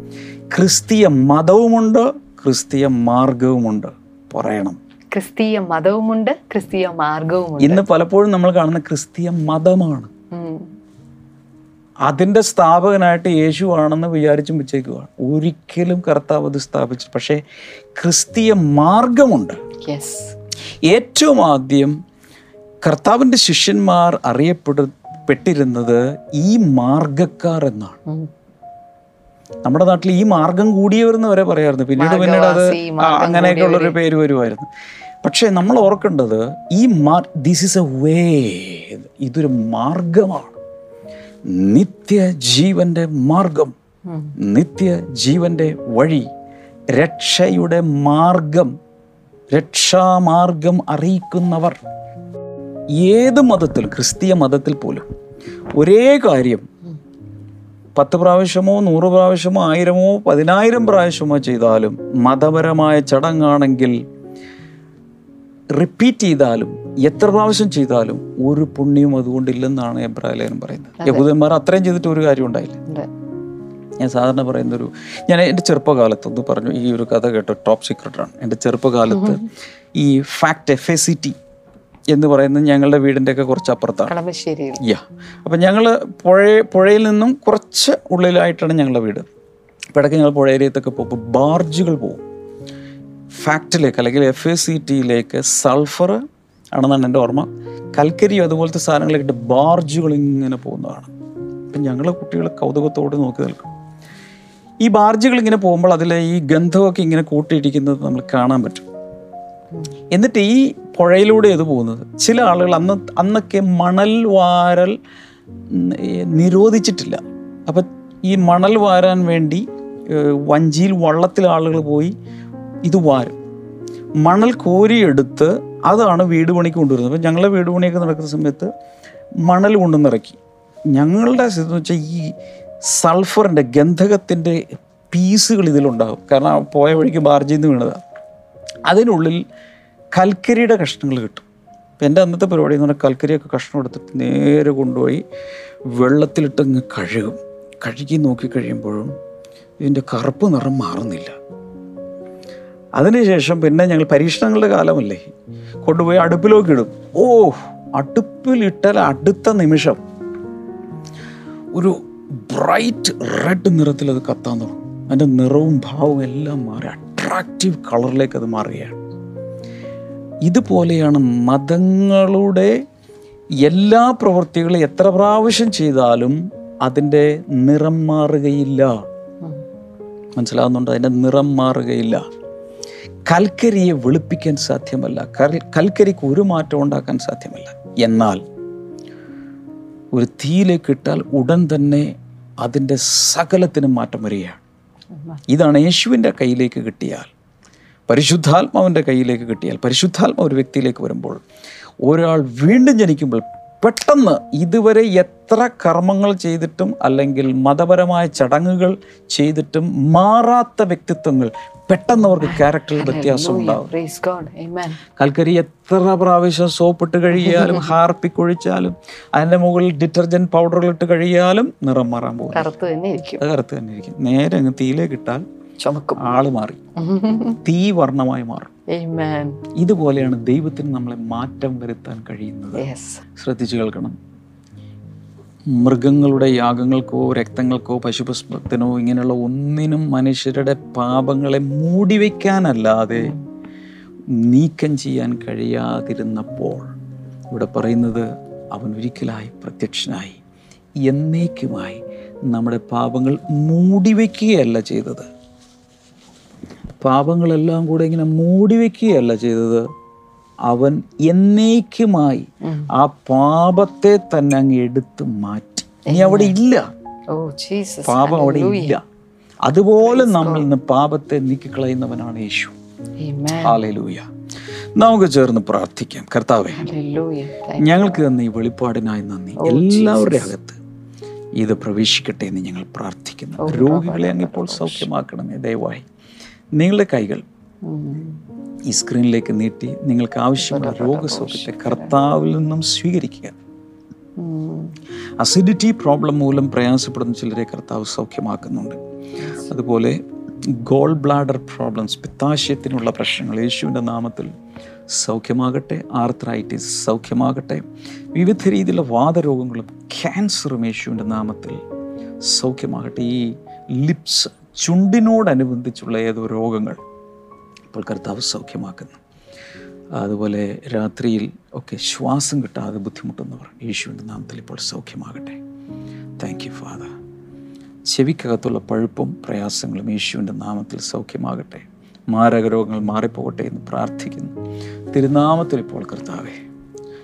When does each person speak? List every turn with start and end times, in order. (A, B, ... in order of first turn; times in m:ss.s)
0:00.5-0:04.8 A
0:05.1-0:07.8 B
0:07.6-0:10.1 A
0:10.3-0:10.7 B
0:12.0-0:17.4 A
0:17.9-0:19.6 A
0:19.8-0:20.3 B
0:20.8-0:22.0 A
0:22.8-0:28.0 A
0:29.6-0:34.7 A
0:32.0-0:34.0 B
0:35.2-0:40.6 A
0:41.5-0:43.7 A
0:44.1-0:44.3 B
0:44.4-0:46.3 A
0:46.9-0:48.7 A
0:49.5-0:51.8 A
0:53.0-0:55.0 A
0:55.8-0:56.7 A
0:58.0-1:04.0 A
1:05.7-1:12.8 A
1:11.0-1:11.3 B
1:14.0-1:21.4 A
1:19.1-1:19.4 B
1:22.1-1:24.1 A
1:24.1-1:24.8 B
1:24.8-1:29.3 A
1:29.9-1:32.2 A
1:33.4-1:36.2 A
1:36.8-1:41.1 A
1:41.7-1:43.7 A
1:44.8-1:48.8 A
1:50.1-1:55.0 A
1:55.7-2:02.1 A
2:02.8-2:03.4 A
2:04.2-2:08.7 A
2:09.5-2:10.4 A
2:10.9-2:12.3 A
2:12.8-2:18.0 A
2:18.8-2:19.4 A
2:20.1-2:21.4 A
2:22.0-2:25.2 A
2:25.9-2:29.1 A
2:29.8-2:31.4 A
2:33.0-2:35.3 A
2:35.8-2:40.0 A
2:41.7-2:49.0 A
2:50.4-2:52.7 A
2:53.6-2:59.1 A
3:00.4-3:02.2 A
3:03.3-3:08.4 A
3:10.1-3:14.6 A
3:15.5-3:17.3 A
3:18.1-3:21.4 A
3:22.0-3:33.9 A
3:32.4-3:35.0 B
3:35.2-3:42.7 A
3:37.3-3:37.9 B
3:42.5-3:43.4 B
3:43.4-3:45.4 A
3:45.8-3:46.2 B
3:46.2-3:46.8 A
3:47.0-3:47.6 B
3:47.6-3:48.7 A
3:48.9-3:49.6 B
3:49.8-3:52.8 A
3:52.7-3:53.2 B
3:53.4-3:54.2 A
3:55.7-4:03.3 A
4:04.3-4:06.9 A
4:07.5-4:10.4 A
4:11.0-4:15.3 A
4:17.0-4:19.8 A
4:20.7-4:26.8 A
4:22.6-4:22.9 B
4:26.0-4:26.6 B
4:27.3-4:29.0 B
4:28.0-4:29.0 A
4:29.6-4:32.7 A
4:30.0-4:30.7 B
4:33.2-4:33.8 B
4:33.6-4:34.2 A
4:35.0-4:36.8 A
4:36.8-4:38.2 B
4:37.8-4:40.8 A
4:39.6-4:40.5 B
4:41.6-4:46.0 A
4:43.6-4:45.1 B
4:46.8-4:47.4 A
4:47.8-4:48.4 B
4:48.9-4:53.6 A
4:50.6-4:52.1 B
4:54.4-4:54.9 B
4:55.4-4:59.0 A
4:59.4-4:59.7 B
4:59.7-5:00.2 A
5:00.7-5:04.5 A
5:05.1-5:11.8 A
5:12.4-5:17.0 A
5:17.9-5:19.2 A
5:20.2-5:25.6 A
5:26.4-5:27.1 A
5:28.1-5:34.5 A
5:35.1-5:36.6 A